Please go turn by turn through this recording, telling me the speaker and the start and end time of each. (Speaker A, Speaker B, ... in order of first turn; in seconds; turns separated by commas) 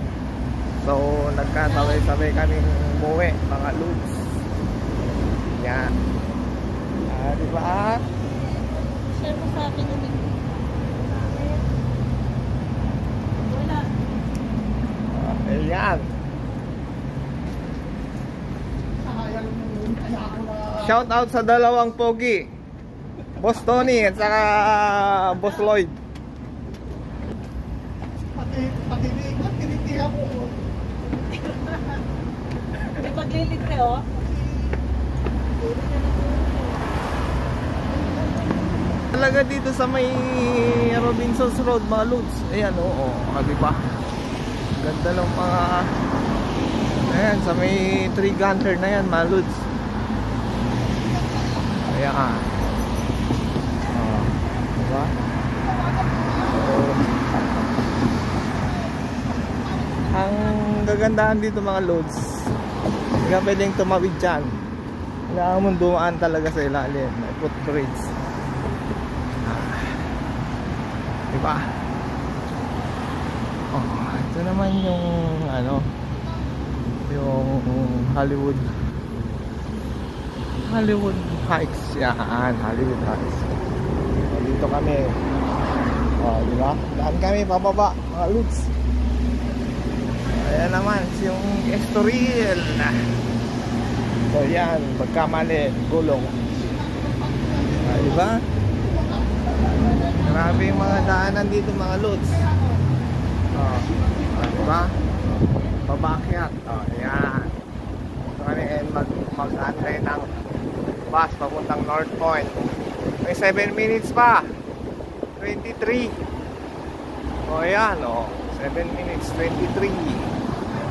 Speaker A: 0.8-4.3, Speaker A: 5.5-6.0, Speaker A: 7.1-8.1, Speaker B: 9.1-10.4, Speaker B: 11.2-11.6, Speaker B: 13.5-13.9, Speaker A: 15.1-16.1, Speaker C: 19.4-20.0, Speaker A: 20.6-22.5, Speaker A: 23.4-25.9, Speaker C: 28.8-30.4, Speaker B: 32.8-34.2, Speaker B: 35.6-36.6, Speaker A: 39.1-43.8, Speaker A: 44.8-45.9, Speaker A: 47.1-49.6, Speaker A: 51.8-52.5, Speaker A: 53.9-55.1, Speaker A: 56.4-57.1, Speaker A: 60.1-62.5, Speaker A: 63.2-64.5, Speaker A: 65.3-68.1, Speaker A: 69.4-70.0, Speaker A: 71.3-71.7, Speaker A: 73.7-75.9, Speaker A: 77.0-78.7, Speaker A: 80.6-83.5, Speaker A: 84.3-85.2, Speaker A: 86.2-88.7, Speaker A: 90.3-93.0, Speaker A: 94.3-96.4, Speaker A: 97.7-98.4, Speaker A: 100.2-102.5, Speaker A: 103.5-105.0, Speaker A: 105.8-107.5, Speaker A: 108.2-110.3, Speaker A: 111.1-114.5, Speaker A: 115.4-116.1, Speaker A: 117.5-120.3